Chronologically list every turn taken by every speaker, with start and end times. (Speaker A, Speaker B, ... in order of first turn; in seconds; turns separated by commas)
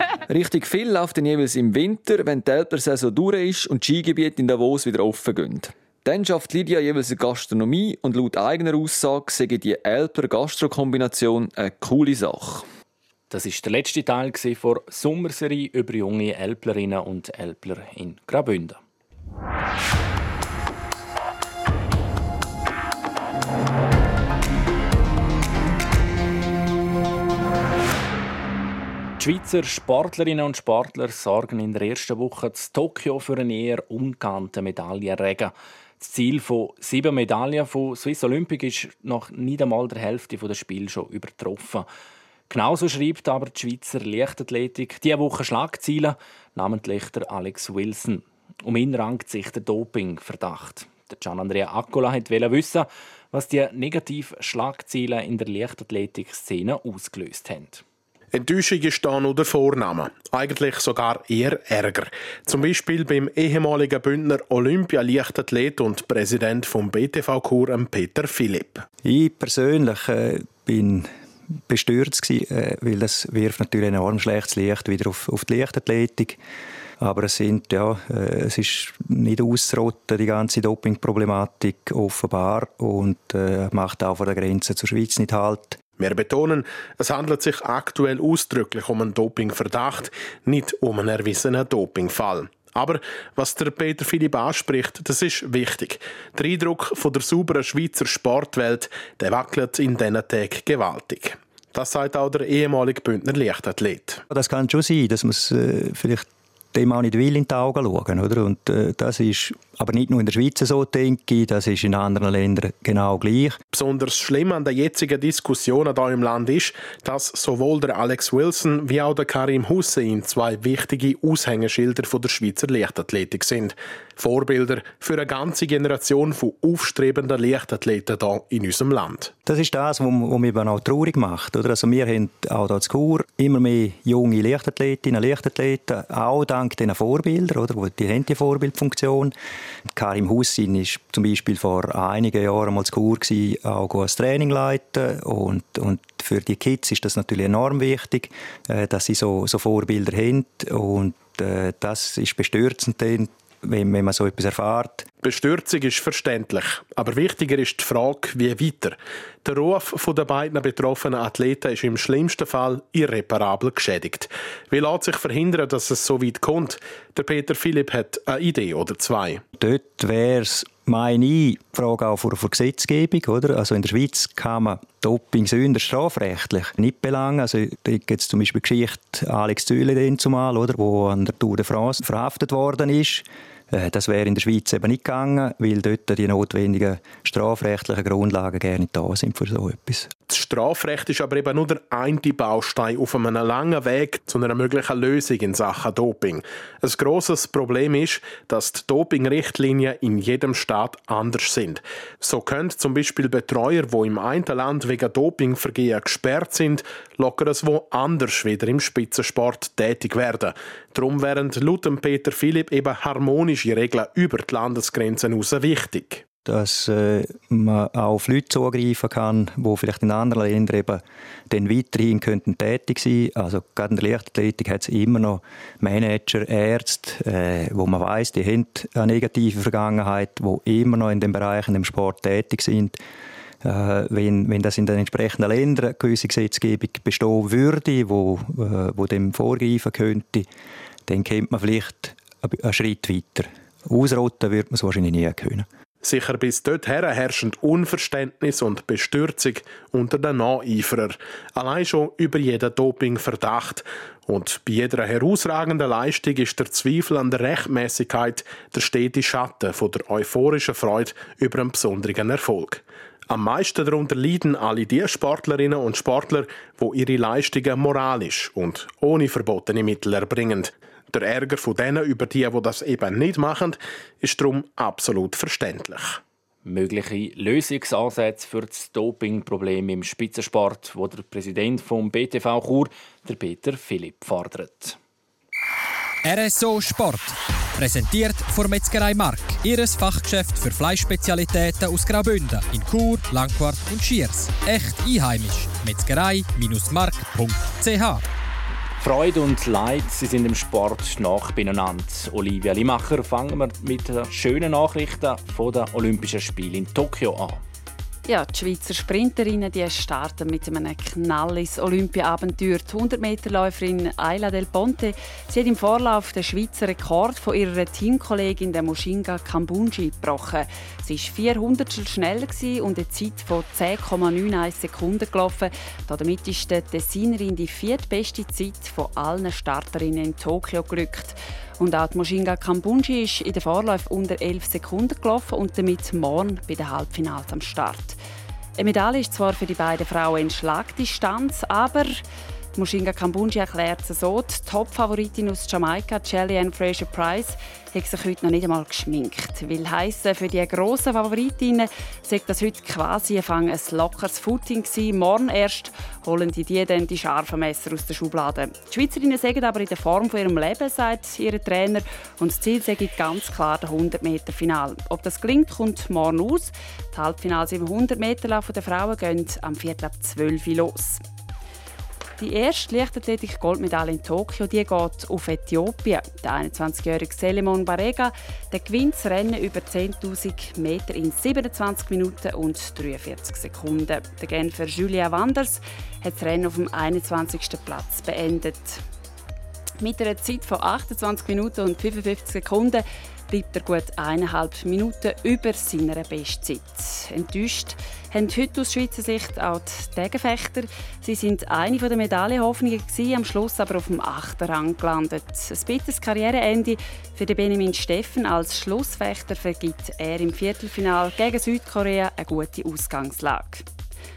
Speaker A: 0.3-12.7, Speaker B: 13.3-18.8, Speaker B: 29.2-41.9, Speaker B: 42.5-57.8, Speaker C: 58.3-68.8, Speaker D: 69.0-71.1, Speaker D: 71.7-76.4, Speaker D: 77.0-85.8, Speaker C: 86.0-104.2, Speaker D: 104.3-113.6, Speaker C: 113.7-129.3, Speaker D: 129.4-139.3, Speaker D: 139.9-155.1, Speaker C: 155.2-169.4, Speaker D: 169.6-190.1, Speaker C: 190.3-216.2, Speaker D: 216.4-233.0, Speaker D: 233.6-240.5, Speaker D: 241.1-245.7, Speaker C: 246.0-276.2, Speaker B: 276.6-285.0, Speaker E: 286.2-298.2, Speaker B: 299.0-307.6, Speaker F: 308.2-338.2, Speaker F: 338.8-342.2, Speaker F: 342.7-371.2, Speaker F: 372.4-389.0, Speaker F: 390.0-413.9